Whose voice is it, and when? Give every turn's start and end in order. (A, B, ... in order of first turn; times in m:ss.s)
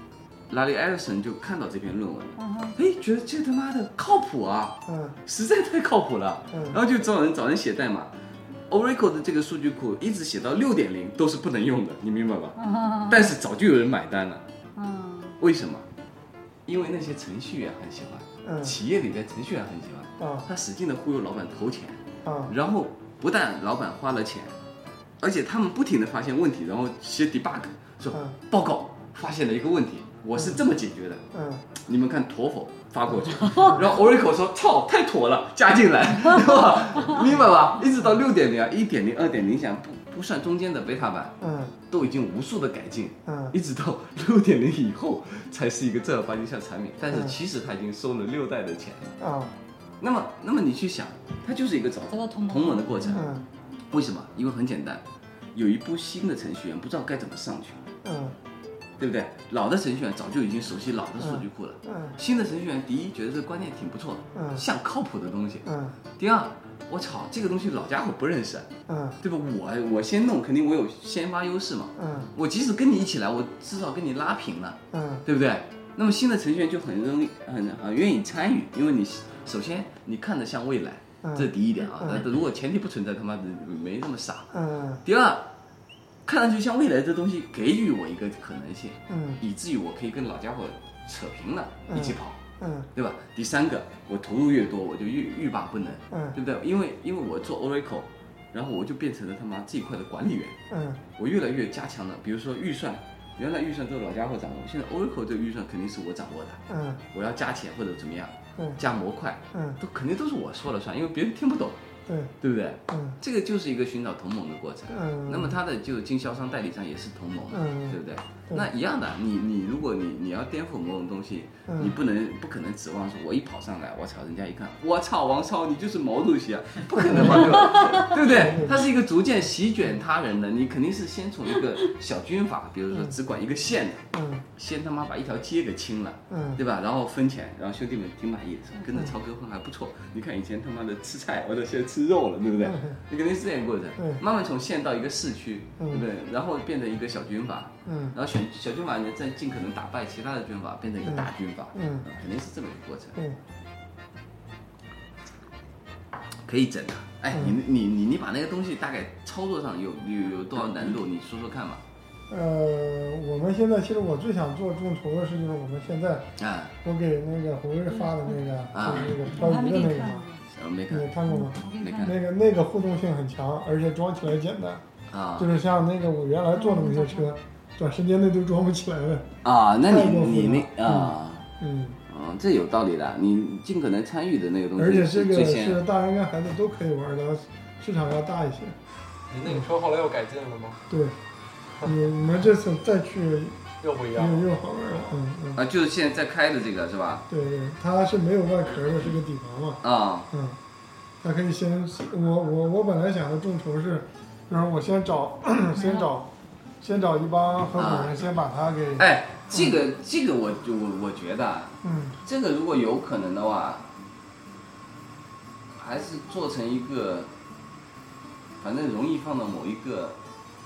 0:00.5-0:08.1 A
0:02.4-0:02.7 B
0:04.9-0:05.2 C
0:06.5-0:06.8 C
0:08.7-0:12.6 A
0:12.6-0:13.3 B
0:13.1-0:14.4 A
0:14.8-0:15.3 B
0:15.4-0:15.8 A
0:16.6-0:24.5 A
0:18.4-0:18.7 C
0:20.2-0:20.4 C
0:22.2-0:22.5 C
0:25.2-0:31.2 A
0:31.3-0:31.6 C
0:31.7-0:41.4 A
0:41.4-0:41.7 C
0:41.9-0:49.2 A
0:43.2-0:43.5 C
0:49.2-0:49.5 C
0:50.0-0:53.3 A
0:52.1-0:53.2 B
0:53.1-0:53.4 C
0:53.9-0:55.0 A
0:55.5-0:57.8 A
0:58.0-0:58.4 C
0:59.0-1:05.6 A
1:01.2-1:02.1 C
1:04.3-1:04.6 C
1:05.6-1:06.0 C
1:06.2-1:08.7 A
1:08.9-1:09.2 C
1:09.2-1:25.5 A
1:12.0-1:12.3 C
1:14.9-1:15.2 C
1:21.2-1:21.5 C
1:24.5-1:25.0 C
1:26.2-1:32.4 A
1:29.1-1:29.4 C
1:31.9-1:32.9 C
1:32.9-1:40.6 A
1:36.1-1:36.4 C
1:40.7-1:41.0 C
1:41.2-1:46.6 A
1:46.7-1:47.0 C
1:47.1-1:51.8 A
1:49.5-1:49.8 C
1:52.1-1:52.3 C
1:52.4-2:33.2 A
1:52.9-1:53.2 C
1:54.9-1:55.5 C
1:57.5-1:58.6 C
2:01.7-2:01.9 C
2:07.0-2:08.8 C
2:14.1-2:14.4 C
2:16.3-2:16.6 C
2:22.6-2:23.0 C
2:25.8-2:26.0 C
2:27.8-2:28.1 C
2:31.0-2:32.0 C
2:36.4-2:41.8 A
2:42.3-2:46.3 C
2:46.4-2:46.7 A
2:46.8-2:50.2 C
2:47.9-2:48.4 B
2:48.7-2:49.1 A
2:49.1-2:50.4 B
2:50.5-2:51.1 A
2:50.9-2:54.8 C
2:51.3-2:52.2 B
2:51.8-2:52.2 A
2:55.1-2:55.5 A
2:55.4-2:59.3 C
2:56.5-2:57.3 B
2:59.4-3:01.5 A
2:59.8-3:02.0 C
3:02.1-3:05.8 A
3:04.8-3:08.8 C
3:09.3-3:10.8 D
3:10.9-3:11.2 C
3:11.8-3:13.6 C
3:13.8-3:14.6 D
3:14.1-3:15.6 C
3:15.5-3:17.2 A
3:17.3-3:20.6 C
3:19.8-3:20.3 A
3:21.2-3:26.3 C
3:25.7-3:26.1 B
3:26.8-3:29.8 C
3:27.7-3:28.2 A
3:29.0-3:33.8 A
3:31.8-3:32.1 C
3:35.7-3:37.3 A
3:38.6-3:40.2 A